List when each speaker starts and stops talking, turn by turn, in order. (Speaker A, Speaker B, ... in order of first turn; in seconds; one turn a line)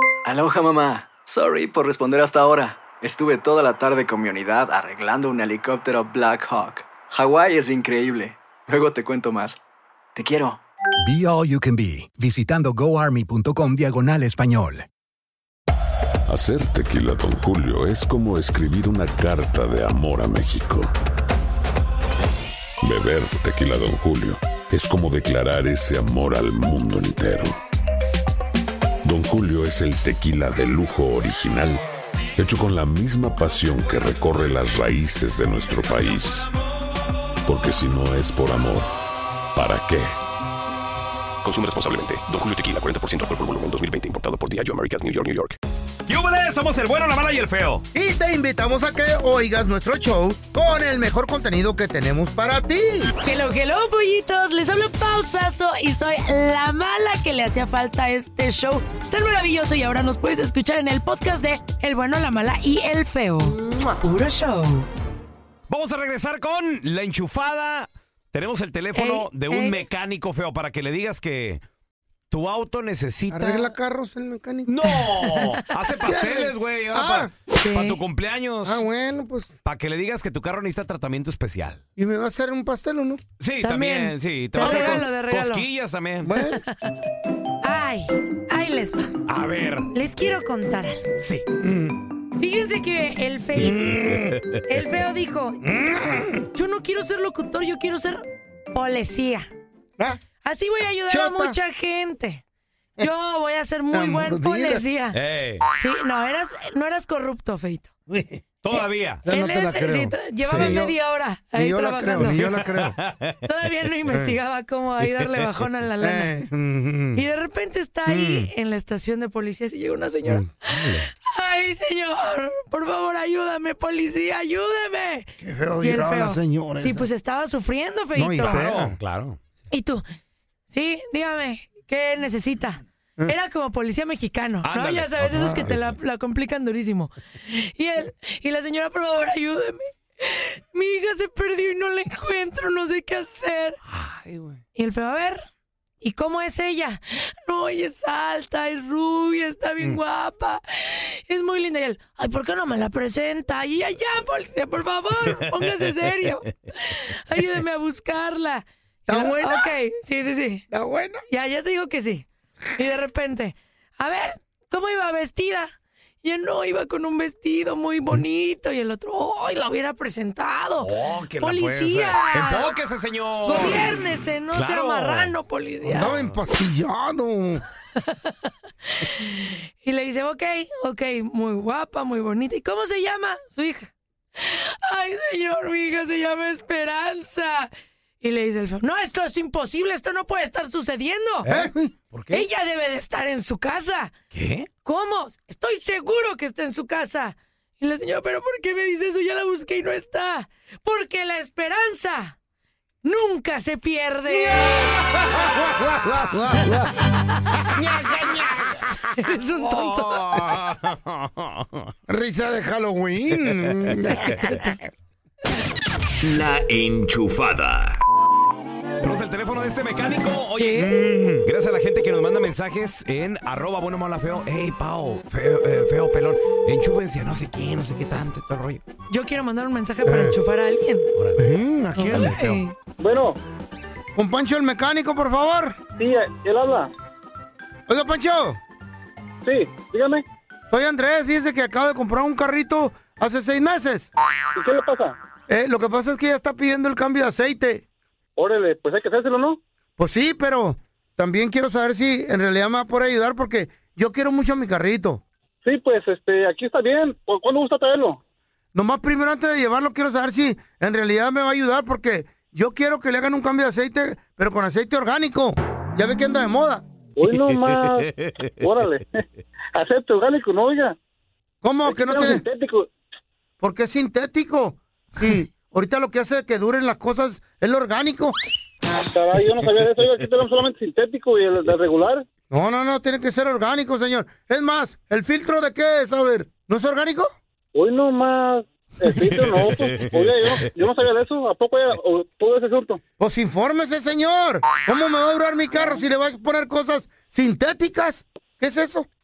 Speaker A: 0.2-9.6
Speaker A: 10.1-10.6
Speaker B: 11.0-14.8
Speaker C: 16.3-20.9
Speaker C: 22.8-27.6
Speaker C: 29.0-31.8
Speaker C: 32.4-36.5
Speaker C: 37.5-38.9
Speaker C: 39.5-40.1
Speaker D: 41.4-45.6
Speaker E: 46.1-47.8
Speaker F: 47.9-53.1
Speaker G: 53.2-64.9
Speaker E: 65.7-71.6
Speaker G: 68.9-69.8
Speaker E: 72.3-73.7
Speaker F: 73.3-75.0
Speaker E: 74.7-78.8
Speaker F: 76.0-77.3
Speaker G: 77.6-78.0
Speaker F: 78.6-79.5
Speaker E: 79.6-81.8
Speaker F: 82.0-83.2
Speaker E: 83.4-86.3
Speaker G: 83.6-85.6
Speaker F: 84.6-85.0
Speaker F: 86.2-86.6
Speaker G: 86.7-86.9
Speaker G: 87.6-89.1
Speaker E: 89.3-89.9
Speaker G: 89.9-91.1
Speaker E: 91.2-91.4
Speaker F: 91.6-92.0
Speaker G: 92.4-93.9
Speaker F: 93.5-94.4
Speaker E: 94.1-94.6
Speaker G: 94.7-95.6
Speaker F: 95.6-96.5
Speaker G: 96.5-99.5
Speaker G: 100.4-102.4
Speaker F: 101.1-101.5
Speaker G: 103.0-105.2
Speaker F: 103.9-104.8
Speaker E: 105.1-105.7
Speaker G: 105.7-107.9
Speaker F: 108.1-108.4
Speaker E: 108.6-109.2
Speaker F: 109.2-111.0
Speaker G: 109.3-112.4
Speaker E: 110.5-110.8
Speaker F: 111.5-113.0
Speaker E: 112.2-113.4
Speaker G: 113.4-116.3
Speaker F: 116.0-117.2
Speaker G: 117.1-128.6
Speaker F: 118.0-118.5
Speaker F: 120.2-120.5
Speaker E: 120.7-121.0
Speaker F: 125.4-127.1
Speaker F: 128.1-129.0
Speaker E: 128.4-129.4
Speaker G: 129.7-130.0
Speaker G: 130.7-143.8
Speaker E: 134.6-135.2
Speaker F: 135.2-135.7
Speaker E: 143.9-144.6
Speaker G: 144.7-145.4
Speaker G: 146.0-160.7
Speaker F: 159.1-159.7
Speaker F: 160.7-161.2
Speaker G: 161.3-165.7
Speaker G: 166.2-172.7
Speaker E: 170.8-175.3
Speaker G: 173.4-176.1
Speaker F: 175.8-177.6
Speaker E: 176.0-176.3
Speaker G: 178.0-191.5
Speaker E: 191.4-192.4
Speaker F: 191.4-191.9
Speaker G: 192.3-194.1
Speaker E: 194.3-194.7
Speaker G: 194.8-202.3
Speaker G: 203.0-205.0
Speaker F: 204.6-206.9
Speaker G: 206.7-207.7
Speaker F: 207.8-208.7
Speaker E: 207.8-208.7
Speaker G: 209.1-210.4
Speaker E: 209.6-211.9
Speaker F: 212.1-214.9
Speaker E: 217.0-217.4
Speaker E: 219.0-228.8
Speaker G: 220.6-220.9
Speaker F: 220.8-221.4
Speaker G: 229.1-231.1
Speaker F: 230.0-230.3
Speaker F: 231.4-232.6
Speaker G: 232.0-232.7
Speaker H: 233.0-233.4
Speaker F: 234.1-235.8
Speaker H: 236.0-236.9
Speaker F: 237.9-238.6
Speaker H: 239.4-240.2
Speaker F: 240.7-244.1
Speaker H: 244.5-245.2
Speaker F: 245.5-247.8
Speaker H: 248.4-249.6
Speaker F: 250.0-255.2
Speaker H: 255.6-258.2
Speaker F: 258.7-266.8
Speaker H: 267.2-268.1
Speaker E: 268.1-268.5
Speaker H: 268.6-269.2
Speaker H: 269.7-270.9
Speaker F: 271.6-272.4
Speaker H: 271.9-272.9
Speaker F: 273.6-278.4
Speaker H: 279.1-282.2
Speaker F: 282.5-287.3
Speaker H: 287.7-293.0
Speaker E: 289.6-290.0
Speaker F: 293.2-299.1